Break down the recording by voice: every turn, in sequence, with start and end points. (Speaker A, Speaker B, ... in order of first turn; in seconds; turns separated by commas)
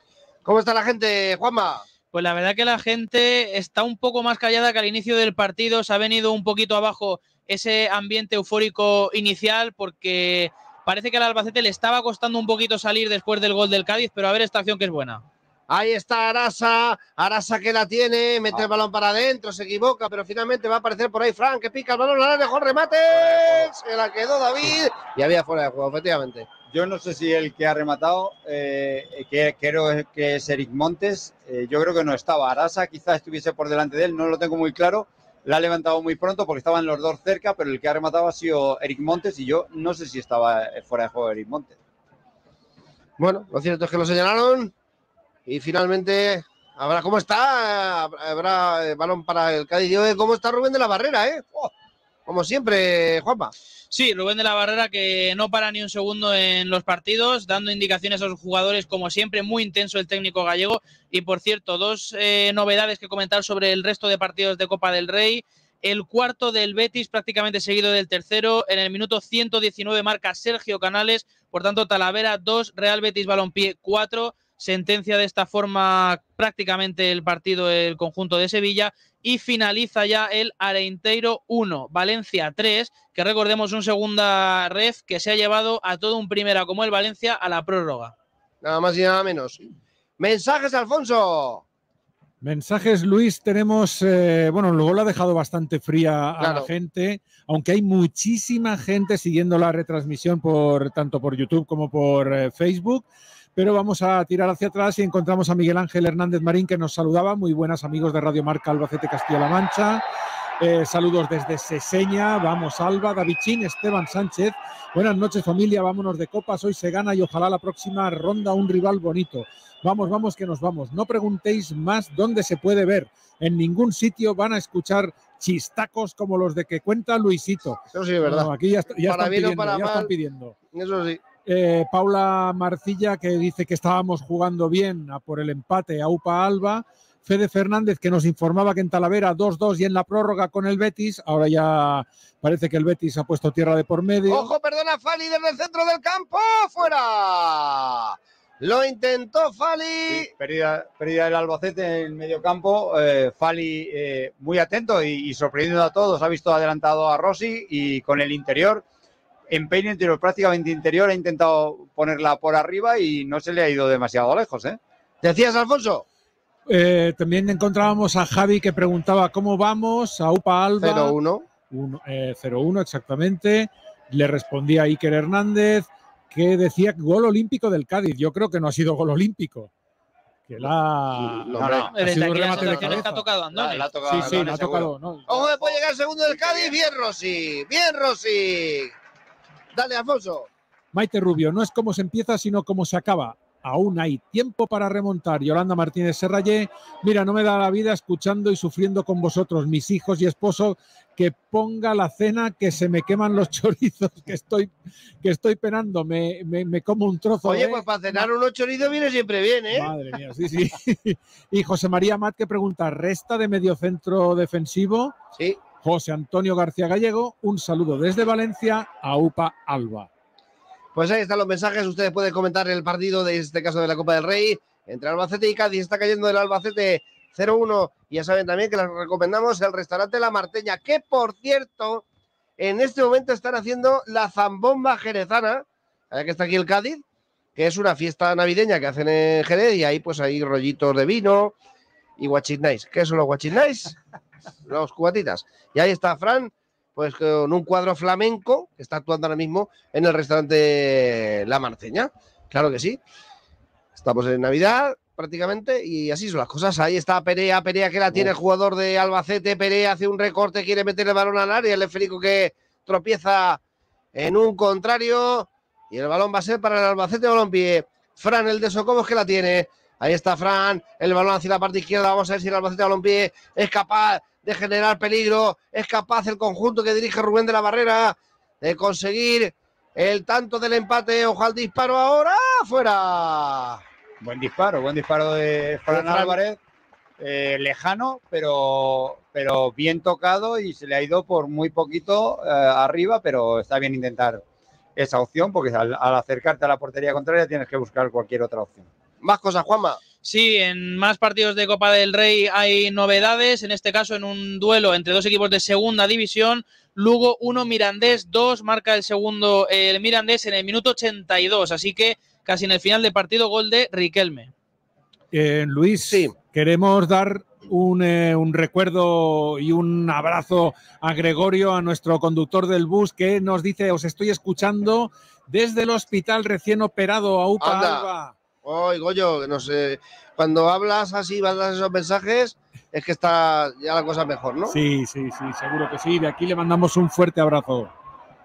Speaker A: 0.5-1.9, Speaker B: 2.1-15.2, Speaker A: 15.7-26.5, Speaker C: 23.1-23.7, Speaker C: 26.7-41.8, Speaker A: 43.2-44.7, Speaker A: 45.5-51.5, Speaker A: 52.3-53.5, Speaker B: 53.9-88.1, Speaker A: 88.6-89.6, Speaker A: 90.2-91.6, Speaker D: 92.4-110.0, Speaker A: 96.4-96.7, Speaker D: 110.6-130.6, Speaker A: 127.9-128.5, Speaker A: 129.0-130.1, Speaker A: 130.7-131.2, Speaker D: 131.4-144.5, Speaker A: 144.3-150.3, Speaker C: 150.1-158.8, Speaker C: 159.5-164.8, Speaker A: 165.2-166.1, Speaker D: 166.7-171.2, Speaker A: 170.8-171.4, Speaker D: 171.7-179.7, Speaker D: 180.5-183.2, Speaker A: 181.2-181.9, Speaker C: 181.6-185.7, Speaker B: 181.9-183.9, Speaker D: 184.1-185.6, Speaker A: 184.2-188.9, Speaker C: 186.3-186.7, Speaker A: 189.7-190.5, Speaker D: 190.9-204.7, Speaker D: 205.2-208.3, Speaker A: 207.4-209.9, Speaker D: 209.7-215.2, Speaker D: 215.8-220.1, Speaker A: 220.9-232.0, Speaker A: 232.6-237.0, Speaker A: 237.6-241.6, Speaker A: 242.2-244.0, Speaker A: 244.7-253.0, Speaker A: 253.9-263.6, Speaker A: 264.1-283.8, Speaker C: 284.2-286.6, Speaker A: 285.9-286.4, Speaker C: 287.2-294.4, Speaker C: 295.0-298.9, Speaker A: 299.2-300.0, Speaker B: 300.2-314.5, Speaker D: 315.3-328.3, Speaker A: 316.1-316.3, Speaker A: 327.6-328.1, Speaker A: 328.6-334.8, Speaker D: 334.7-337.9